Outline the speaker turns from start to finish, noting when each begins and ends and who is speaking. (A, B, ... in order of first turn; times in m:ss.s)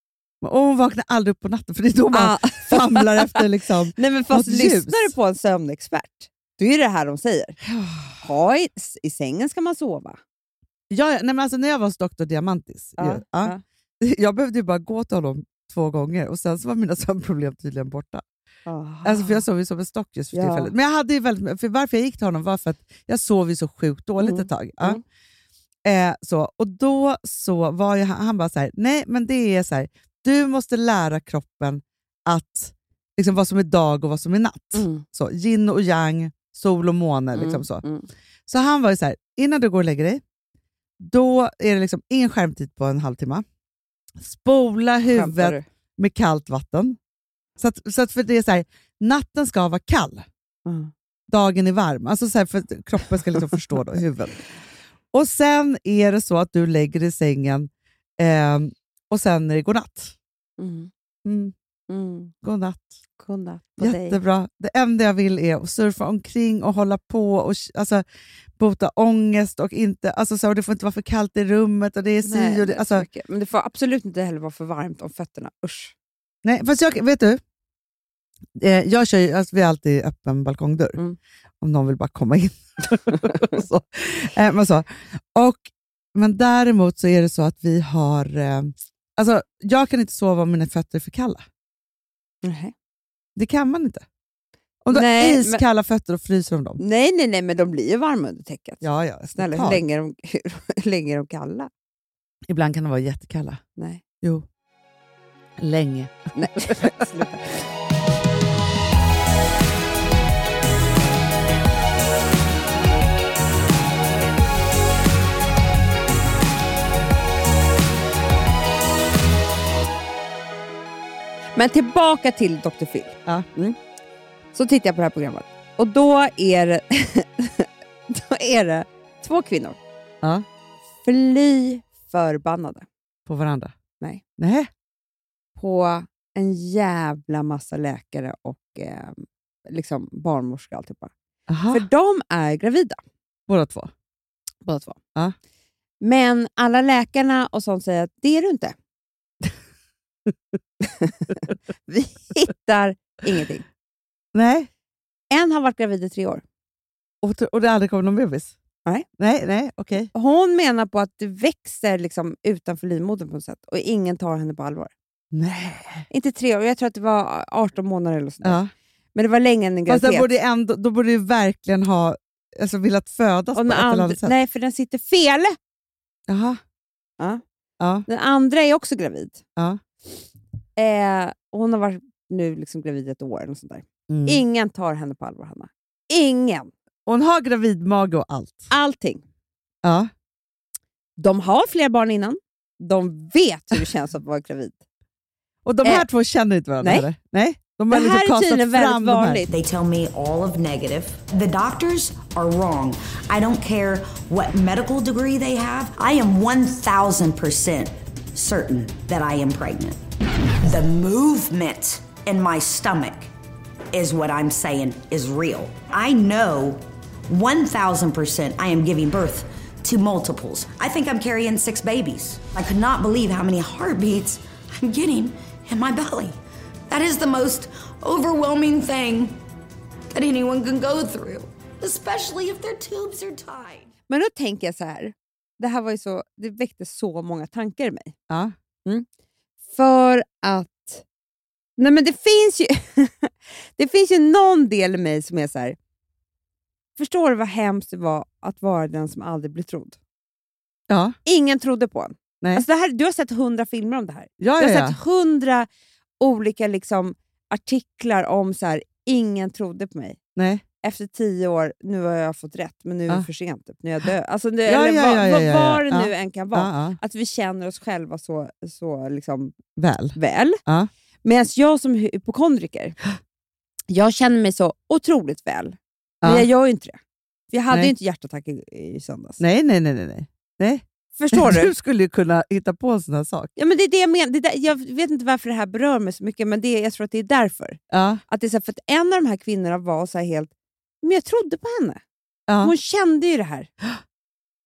0:00.4-0:05.1 A
0:02.1-0:07.6 B
0:07.6-0:08.2 A
0:08.2-0:10.2 B
0:10.9-0:18.2 A
0:13.0-0:13.6 B
0:18.6-0:19.4 B
0:19.0-0:25.0 A
0:20.3-0:20.7 B
0:24.2-0:25.0 B
0:25.8-0:37.8 A
0:34.7-0:35.0 B
0:37.3-0:38.1 B
0:38.5-0:40.2 A
0:41.0-0:43.4 A
0:44.2-0:47.0 A
0:45.1-0:45.6 B
0:47.6-0:50.2 A
0:50.6-0:50.9 B
0:51.3-0:54.4 A
0:55.1-1:00.2 A
1:00.6-1:00.9 B
1:01.2-1:01.5 A
1:01.9-1:02.3 B
1:02.4-1:02.9 A
1:03.2-1:04.2 B
1:03.8-1:08.0 A
1:08.6-1:13.1 A
1:12.2-1:15.9 B
1:16.4-1:17.4 A
1:18.5-1:21.0 A
1:21.6-1:31.4 A
1:23.2-1:23.6 B
1:32.4-1:32.7 B
1:33.4-1:34.0 A
1:34.8-1:36.8 A
1:34.9-1:35.6 B
1:36.8-1:38.8 B
1:38.8-1:39.8 A
1:39.3-1:41.7 B
1:42.5-1:43.6 A
1:43.8-1:44.0 B
1:45.6-1:47.0 A
1:46.3-1:47.6 B
2:01.6-2:03.8 B
2:04.5-2:09.8 B
2:11.0-2:12.8 B
2:13.2-2:13.7 A
2:14.4-2:14.7 A
2:15.6-2:21.1 B
2:21.5-2:21.8 A
2:21.7-2:23.0 B
2:23.5-2:23.9 A
2:24.6-2:25.0 B
2:26.0-2:28.7 B
2:30.8-2:33.6 B
2:34.3-2:34.7 A
2:35.3-2:36.4 B
2:37.2-2:38.5 A
2:39.2-2:40.1 A
2:40.1-2:44.9 B
2:45.3-2:46.0 A
2:46.1-2:48.6 B
2:48.4-2:48.7 A
2:49.1-2:50.3 B
2:49.9-2:54.3 A
2:53.5-2:55.6 B
2:56.3-2:56.6 A
2:57.8-2:58.0 A
2:58.1-2:59.4 B
3:00.8-3:06.7 B
3:04.1-3:04.4 A
3:07.0-3:08.7 A
3:08.7-3:09.2 B
3:09.8-3:10.1 A
3:11.2-3:14.8 B
3:15.6-3:19.4 A
3:16.8-3:17.1 B
3:17.9-3:19.5 B
3:19.5-3:30.0 C
3:30.6-3:33.3 C
3:33.9-3:46.4 C
3:46.9-3:49.4 C
3:50.1-3:53.9 C
3:54.1-3:58.1 B
3:58.3-3:58.5 A
3:59.7-4:01.0 B
4:01.8-4:05.8 B
4:07.0-4:10.0 B
4:10.9-4:11.1 A
4:11.2-4:15.7 B
4:14.4-4:15.0 A
4:16.2-4:20.2 B
4:20.4-4:20.6 A
4:20.8-4:29.6 B
4:24.6-4:27.0 A
4:29.8-4:30.9 A
4:30.1-4:30.6 B
4:31.2-4:33.0 B
4:33.9-4:37.0 B
4:36.2-4:36.5 A
4:37.5-4:39.4 B
4:39.4-4:43.5 A
4:41.2-4:41.7 B
4:43.6-4:50.5 B
4:47.9-4:48.2 A
4:51.0-4:52.0 B
4:52.5-4:52.7 A
4:52.6-4:53.7 B